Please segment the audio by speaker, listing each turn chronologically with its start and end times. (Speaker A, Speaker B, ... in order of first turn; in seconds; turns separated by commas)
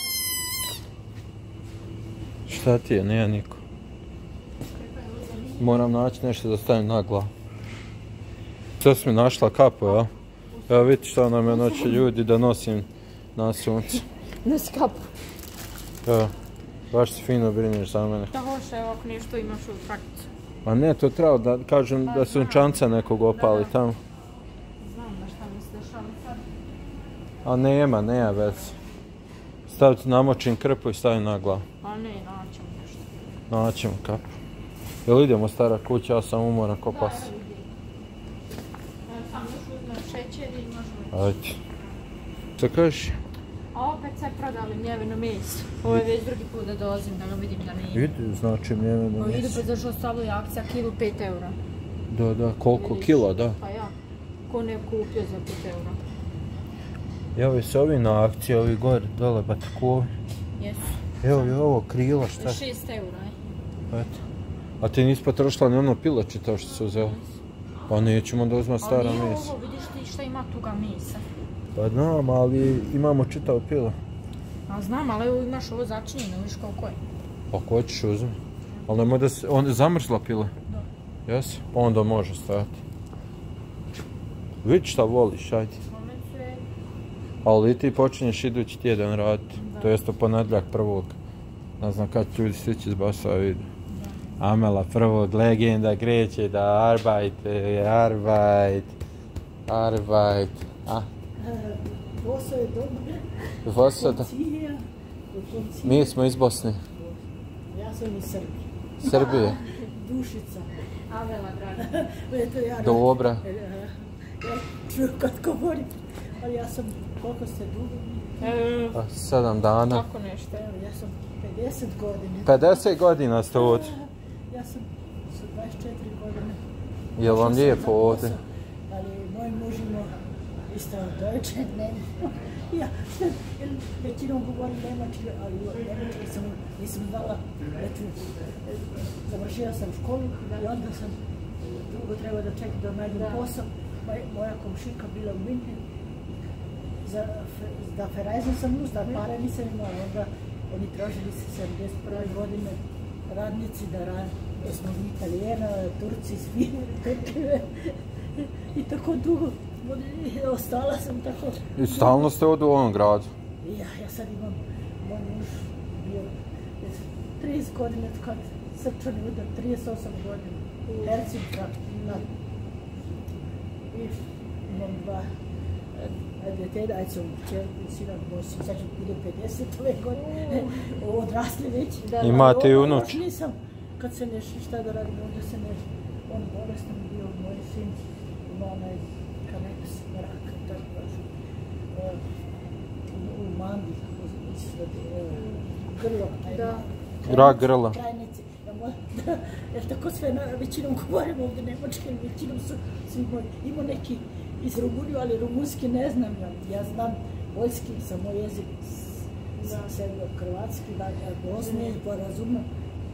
Speaker A: 2.5-3.6, Speaker B: 4.7-5.8, Speaker A: 5.6-7.3, Speaker A: 8.8-10.1, Speaker B: 10.6-12.1, Speaker A: 10.7-14.1, Speaker B: 14.4-15.1, Speaker A: 16.1-16.3, Speaker A: 16.9-18.3, Speaker B: 18.3-20.3, Speaker A: 20.6-24.0, Speaker B: 22.0-22.8, Speaker B: 23.3-23.8, Speaker B: 24.8-26.4, Speaker A: 27.4-28.8, Speaker A: 29.7-31.6, Speaker B: 31.8-33.1, Speaker A: 33.5-34.3, Speaker A: 35.1-37.3, Speaker B: 36.9-37.7, Speaker B: 39.1-41.2, Speaker A: 41.1-41.6, Speaker A: 42.6-43.2, Speaker B: 43.7-48.1, Speaker A: 47.9-49.6, Speaker B: 49.2-51.6, Speaker A: 52.1-53.6, Speaker B: 52.7-53.9, Speaker B: 54.5-56.0, Speaker A: 57.4-60.1, Speaker B: 60.6-61.6, Speaker A: 61.2-62.6, Speaker B: 62.4-63.4, Speaker A: 63.9-64.2, Speaker A: 64.8-67.2, Speaker B: 66.9-67.4, Speaker A: 67.9-69.5, Speaker B: 68.8-71.2, Speaker A: 71.8-74.0, Speaker B: 74.7-77.0, Speaker A: 77.5-80.5, Speaker B: 78.7-79.0, Speaker A: 81.3-82.8, Speaker A: 84.6-85.8, Speaker B: 85.9-86.6, Speaker A: 87.4-91.2, Speaker B: 89.6-90.0, Speaker A: 91.8-93.7, Speaker B: 93.9-94.4, Speaker A: 94.4-99.0, Speaker A: 99.7-101.1, Speaker C: 101.4-106.2, Speaker A: 103.7-104.3, Speaker A: 105.8-106.8, Speaker C: 107.7-110.7, Speaker A: 109.0-109.6, Speaker B: 109.1-109.8, Speaker B: 111.1-112.0, Speaker C: 111.8-118.5, Speaker A: 112.8-113.4, Speaker B: 118.4-119.0, Speaker A: 119.0-120.0, Speaker B: 119.9-120.6, Speaker C: 120.5-122.8, Speaker A: 122.5-123.9, Speaker C: 123.5-126.6, Speaker A: 127.2-128.3, Speaker C: 127.2-130.2, Speaker C: 130.7-146.4, Speaker B: 143.1-143.5, Speaker C: 147.0-162.3, Speaker B: 149.0-149.2, Speaker A: 161.8-163.3, Speaker C: 163.6-172.3, Speaker B: 170.9-171.2, Speaker B: 171.9-172.3, Speaker C: 173.9-175.3, Speaker C: 175.9-191.3, Speaker B: 180.1-181.0, Speaker B: 182.0-182.5, Speaker A: 182.2-183.2, Speaker C: 191.9-192.2, Speaker C: 193.1-212.7, Speaker B: 195.4-195.9, Speaker B: 196.5-196.8, Speaker A: 197.2-198.0, Speaker B: 209.6-209.9, Speaker B: 211.6-211.9